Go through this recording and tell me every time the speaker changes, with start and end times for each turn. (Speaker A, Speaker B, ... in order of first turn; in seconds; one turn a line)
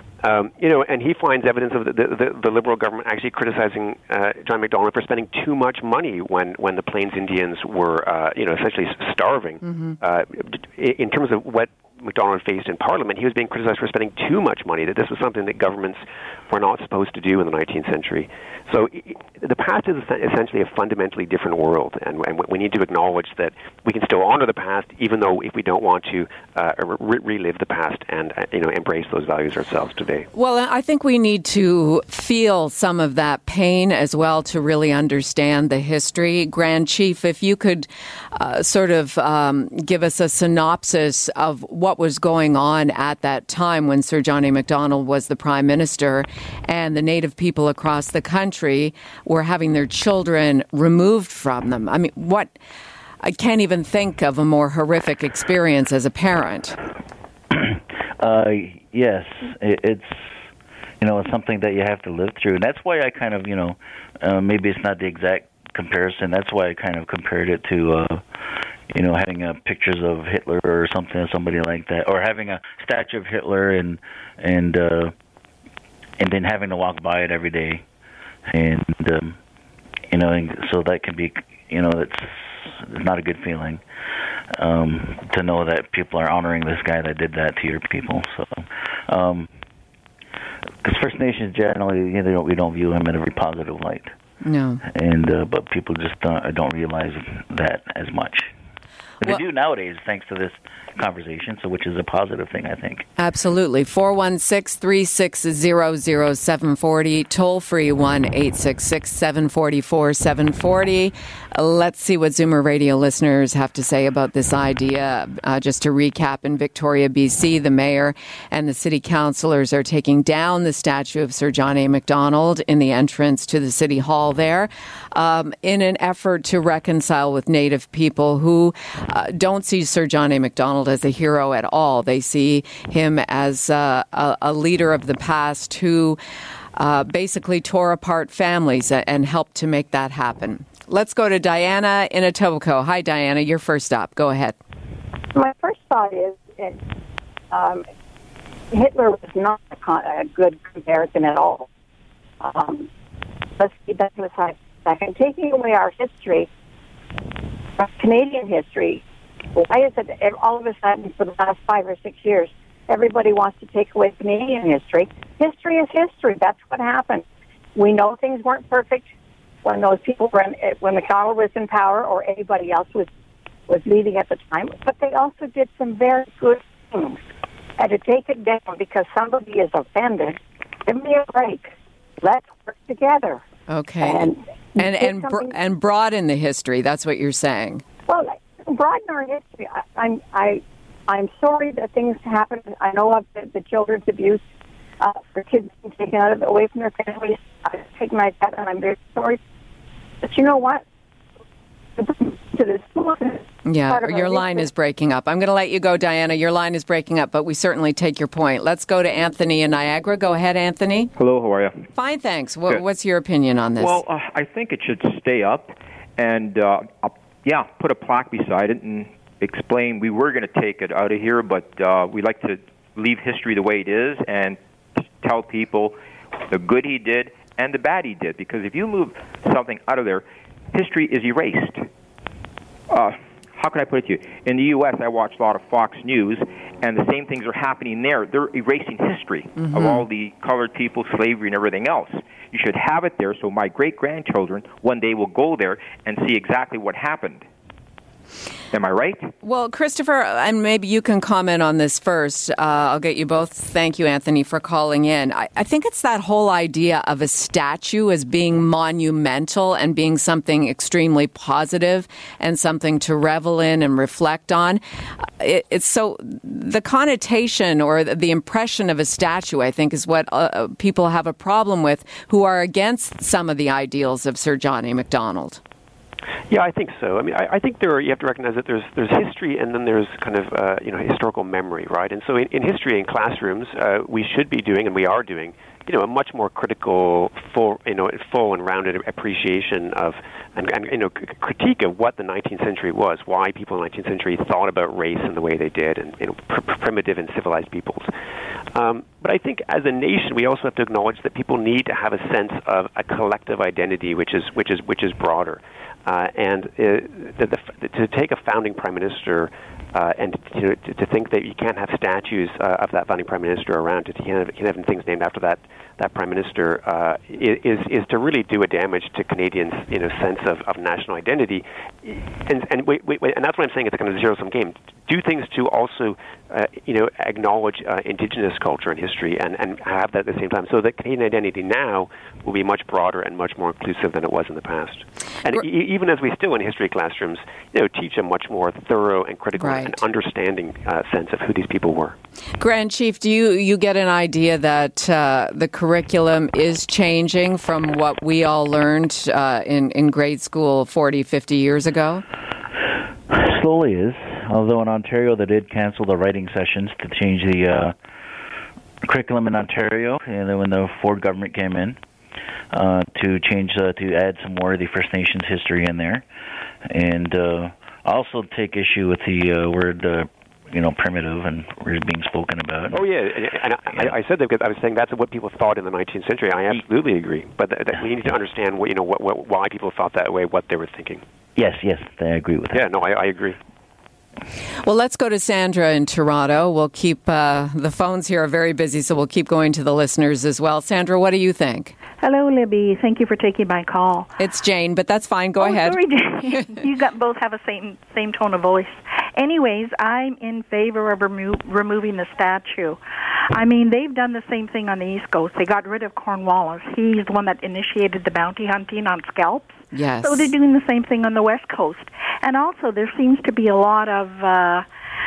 Speaker A: 0.2-30.3
Speaker B: 9.6-9.9
Speaker B: 30.3-52.5
Speaker B: 53.2-56.8
Speaker C: 57.5-60.4
Speaker C: 61.0-68.2
Speaker C: 68.9-75.1
Speaker C: 76.2-77.8
Speaker C: 78.5-79.4
Speaker C: 80.1-83.8
Speaker C: 84.5-89.5
Speaker C: 90.8-94.1
Speaker B: 94.4-94.8
Speaker C: 94.8-98.5
Speaker C: 99.2-103.1
Speaker B: 103.2-136.2
Speaker B: 136.8-144.6
Speaker D: 145.3-146.8
Speaker D: 147.5-147.8
Speaker D: 148.7-151.7
Speaker D: 152.4-152.9
Speaker D: 153.6-156.5
Speaker D: 157.8-159.0
Speaker D: 159.6-169.1
Speaker D: 169.6-173.1
Speaker D: 173.7-177.2
Speaker D: 177.8-183.4
Speaker B: 183.7-187.8
Speaker D: 184.0-185.5
Speaker D: 188.1-194.4
Speaker D: 195.0-199.4
Speaker D: 200.2-200.8
Speaker D: 201.9-204.7
Speaker B: 203.6-211.1
Speaker E: 211.1-211.9
Speaker B: 211.9-214.0
Speaker E: 213.8-224.6
Speaker E: 225.2-225.9
Speaker E: 226.5-231.9
Speaker E: 232.9-247.4
Speaker B: 239.7-240.0
Speaker E: 248.7-249.3
Speaker B: 249.4-275.6
Speaker A: 276.5-298.1
Speaker A: 298.7-342.2
Speaker B: 339.6-340.0
Speaker B: 342.6-352.2
Speaker C: 353.3-357.9
Speaker C: 359.0-362.0
Speaker C: 362.7-366.2
Speaker C: 366.9-373.0
Speaker A: 372.9-381.2
Speaker C: 381.6-382.9
Speaker A: 382.7-383.6
Speaker B: 384.8-391.9
Speaker F: 392.2-394.3
Speaker B: 394.4-396.0
Speaker F: 395.6-403.0
Speaker F: 403.5-414.9
Speaker B: 409.9-410.5